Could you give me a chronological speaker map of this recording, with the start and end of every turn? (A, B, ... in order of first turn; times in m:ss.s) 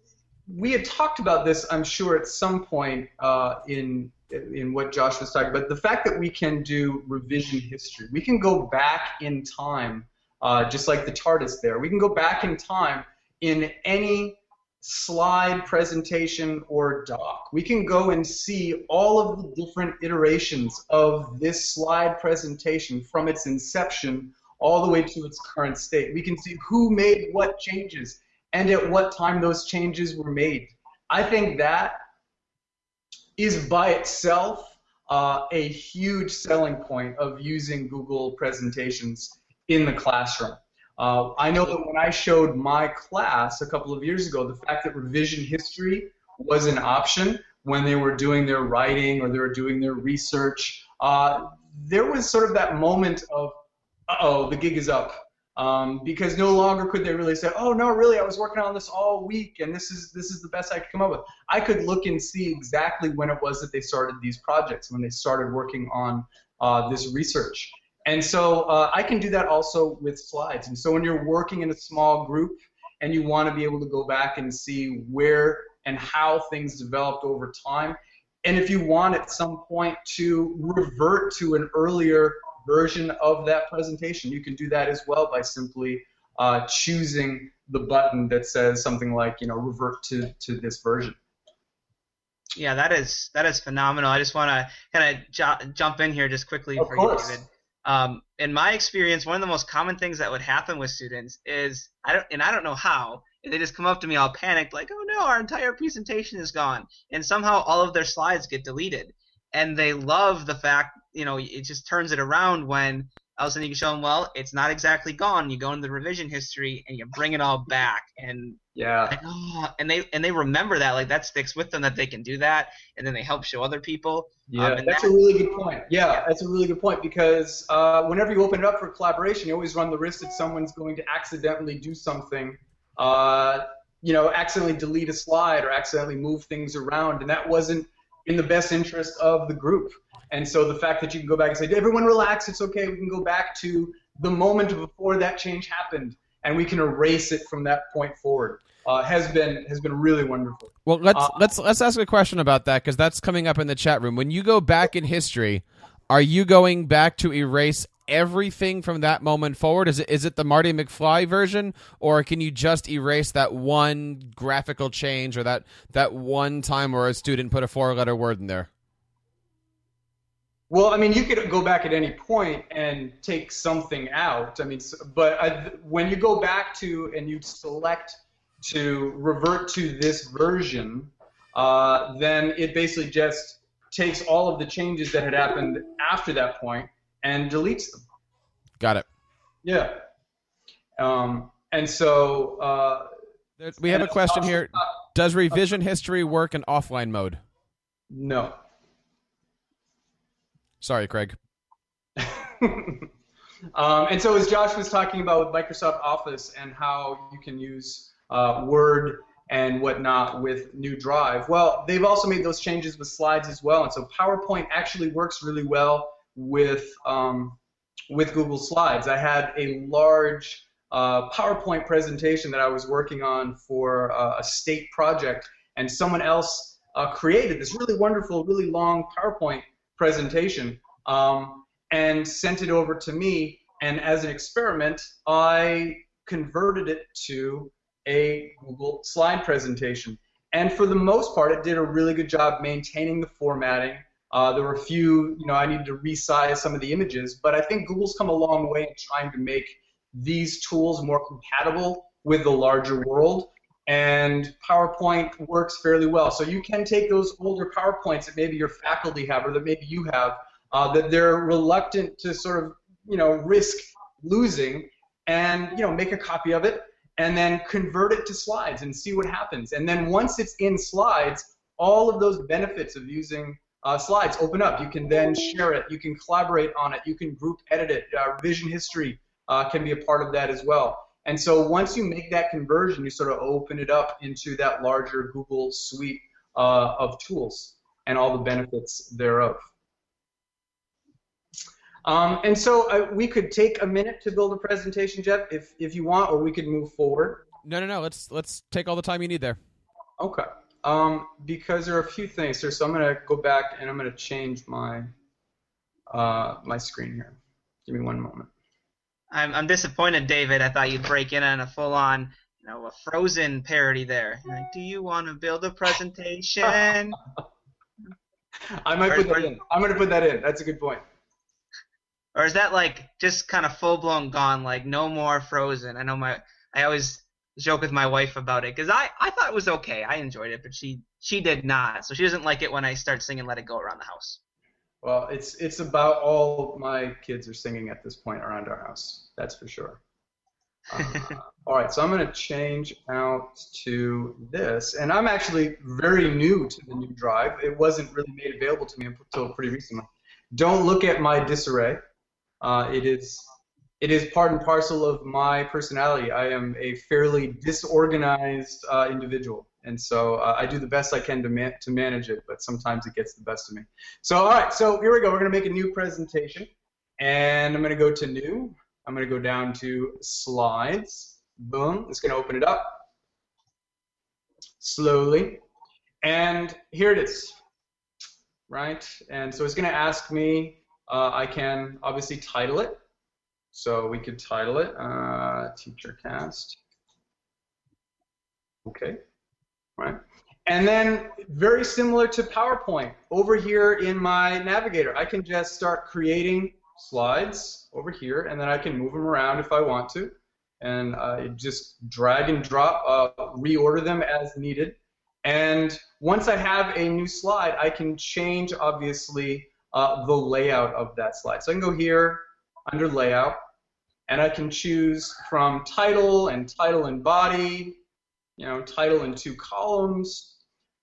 0:00.5-0:32.0 A
0:33.4-1:31.2 A
1:32.5-2:05.1 B
1:36.8-1:37.4 A
1:58.7-1:59.2 A
2:04.5-2:31.4 A
2:30.8-2:48.7 C
2:50.7-3:08.0 A
3:08.8-3:09.0 C
3:09.6-3:10.0 A
3:11.0-3:13.1 A
3:13.6-3:17.4 C
3:13.8-3:14.9 A
3:18.1-3:18.6 A
3:20.8-3:21.4 C
3:22.2-3:23.1 A
3:23.7-3:37.6 A
3:38.1-4:49.6 A
4:52.0-4:57.4 A
4:57.6-4:59.6 C
5:00.2-5:05.1 A
5:06.1-5:08.5 A
5:09.3-5:17.2 B
5:18.8-5:21.0 A
5:19.1-5:19.6 B
5:22.3-5:34.4 B
5:35.0-5:40.0 A
5:40.9-5:52.0 A
5:52.6-5:53.5 A
5:54.0-6:13.0 A
6:14.8-6:15.6 A
6:16.2-6:17.6 A
6:18.7-6:23.0 A
6:23.7-6:26.8 A
6:28.8-6:29.2 A
6:30.0-6:53.6 A
6:54.3-6:58.0 A
6:58.6-7:00.5 A